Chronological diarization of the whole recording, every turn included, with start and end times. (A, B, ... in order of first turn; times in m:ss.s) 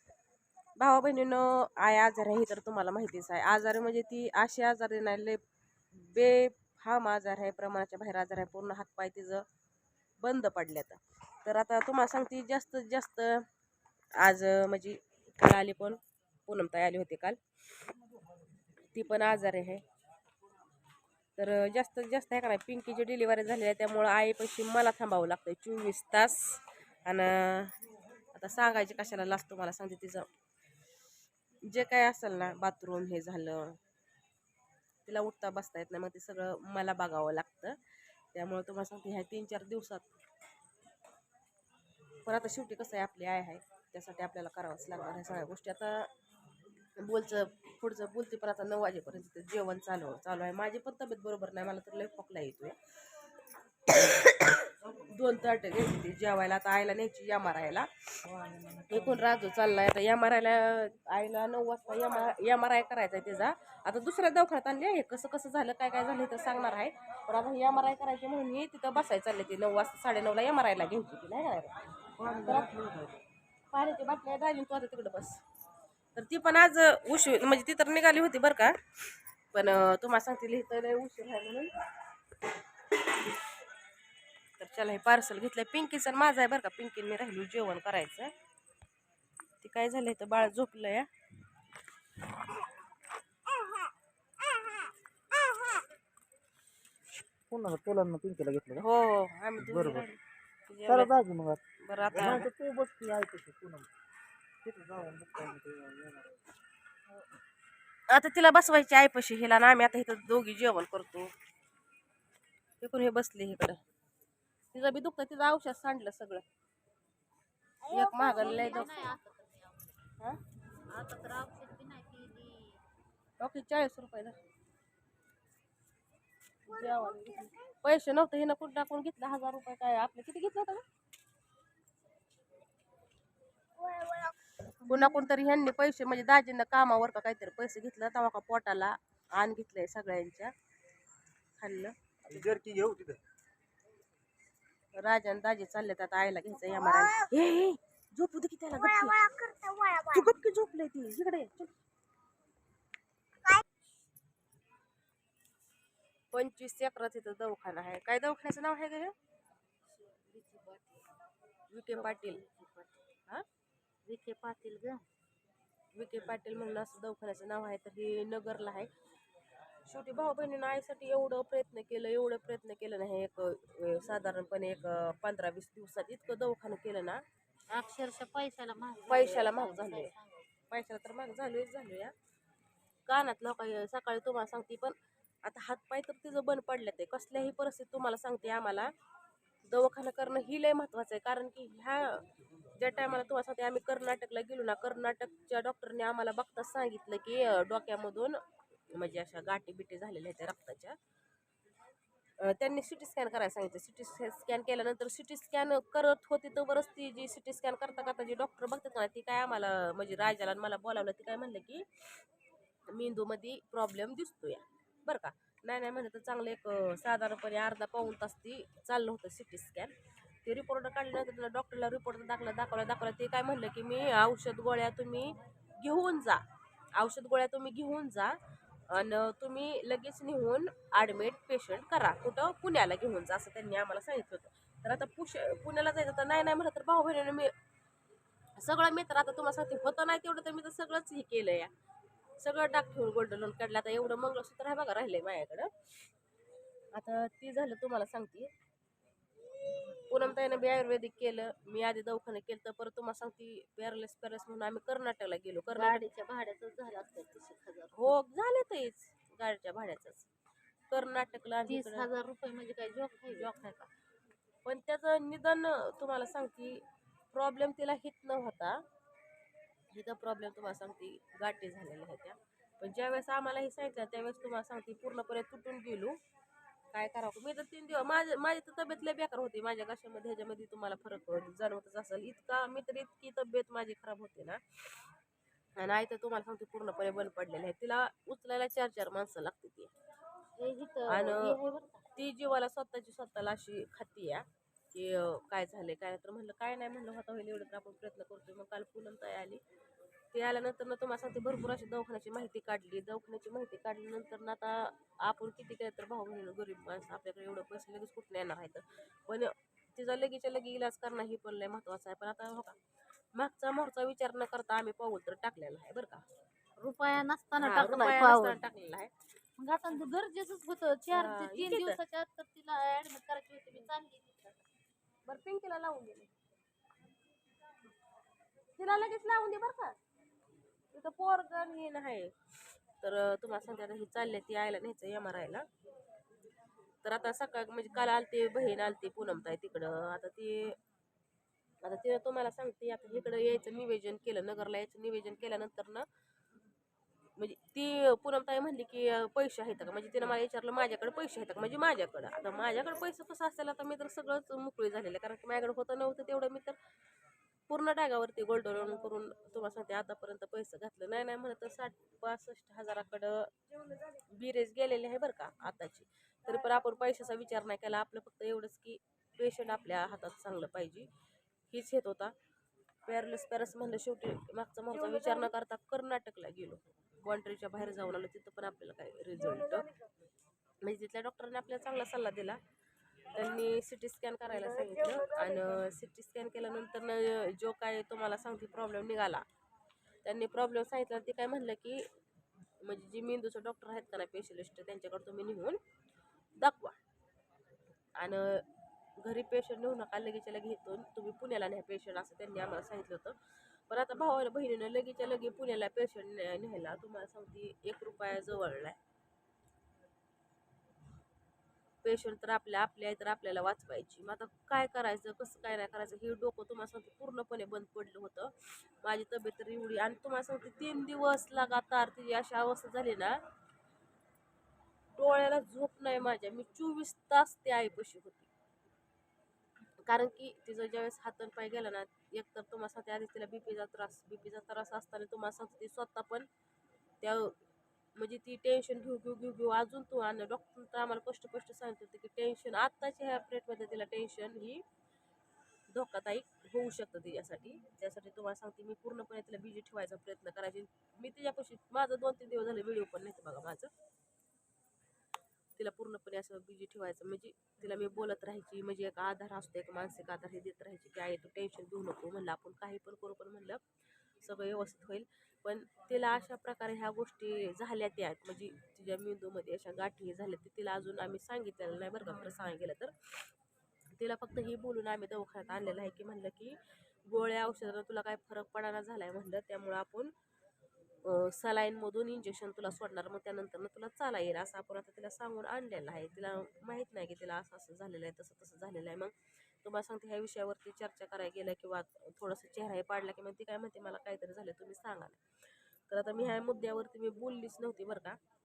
0:00.8-0:05.4 A
0:05.9-0:09.4 A
0:10.2-0:13.5 A
0:14.2-0:17.4 A
0:18.9-0:19.8 A
0:21.4-0:27.8 A
0:28.3-0:30.3 A
0:31.6-0:33.8 A
0:35.1-0:37.8 A
0:38.3-0:40.1 A
0:42.2-0:46.1 A
0:47.0-0:52.8 A
0:53.9-0:58.2 A
0:58.3-0:59.2 B
0:58.9-1:11.8 A
1:12.2-1:13.2 B
1:12.3-1:12.7 A
1:13.7-1:15.4 A
1:16.2-1:21.7 A
1:24.6-1:28.3 A
1:29.6-1:31.1 A
1:37.5-1:38.8 B
1:38.8-1:41.1 A
1:39.6-1:40.0 B
1:40.9-1:43.9 B
1:41.8-1:42.5 A
1:44.6-1:46.4 B
1:48.1-1:51.3 A
1:52.8-1:53.8 A
1:54.7-1:56.4 A
1:57.9-1:59.1 A
1:58.0-2:00.0 C
2:00.9-2:02.8 C
2:03.4-2:04.4 A
2:06.7-2:10.8 A
2:14.8-2:15.3 C
2:14.9-2:20.5 A
2:21.6-2:22.6 A
2:22.3-2:23.2 B
2:25.0-2:31.7 A
2:36.3-2:39.1 A
2:39.9-2:41.1 C
2:41.7-2:42.4 A
2:41.9-2:43.0 C
2:44.0-2:45.1 C
2:46.0-2:48.9 A
2:49.9-2:57.2 A
2:57.7-3:00.5 C
2:59.1-3:00.1 A
3:00.7-3:02.1 A
3:03.1-3:08.9 A
3:09.6-3:18.4 A
3:18.9-3:21.0 A
3:22.4-3:32.2 A
3:32.9-3:46.4 A
3:47.0-3:48.4 A
3:48.9-3:57.5 A
3:58.6-4:01.7 A
4:02.4-4:05.7 A
4:06.9-4:08.5 A
4:10.1-4:16.0 A
4:15.8-4:18.2 C
4:18.0-4:20.3 A
4:20.9-4:22.1 A
4:21.7-4:23.8 C
4:23.3-4:23.9 A
4:24.6-4:28.8 A
4:29.9-4:36.2 A
4:36.9-4:45.1 A
4:45.8-4:49.9 A
4:50.6-4:52.1 C
4:51.1-4:51.6 A
4:52.1-4:59.6 A
5:00.3-5:12.8 A
5:13.4-5:16.2 A
5:16.8-5:18.6 C
5:17.6-5:19.1 A
5:19.6-5:24.6 C
5:21.1-5:22.0 A
5:25.3-5:26.3 A
5:28.8-5:30.0 A
5:30.9-5:35.7 A
5:37.0-5:40.8 A
5:41.8-5:46.1 A
5:47.4-5:56.8 A
5:57.7-6:03.5 A
6:04.1-6:11.1 A
6:11.7-6:12.3 A
6:13.1-6:19.9 A
6:20.8-6:22.6 A
6:23.3-6:29.4 A
6:30.2-6:32.0 A
6:32.8-6:35.8 A
6:36.6-6:37.0 A
6:38.2-6:38.7 A
6:39.2-6:43.4 A
6:43.9-6:49.0 A
6:52.0-7:03.4 A
7:05.2-7:08.5 A
7:10.1-7:16.5 A
7:17.2-7:17.6 A
7:18.2-7:24.8 A
7:25.9-7:33.9 A
7:35.8-7:43.8 A
7:44.4-7:53.5 A
7:54.2-8:00.3 A
8:01.2-8:15.4 A
8:16.1-8:18.4 A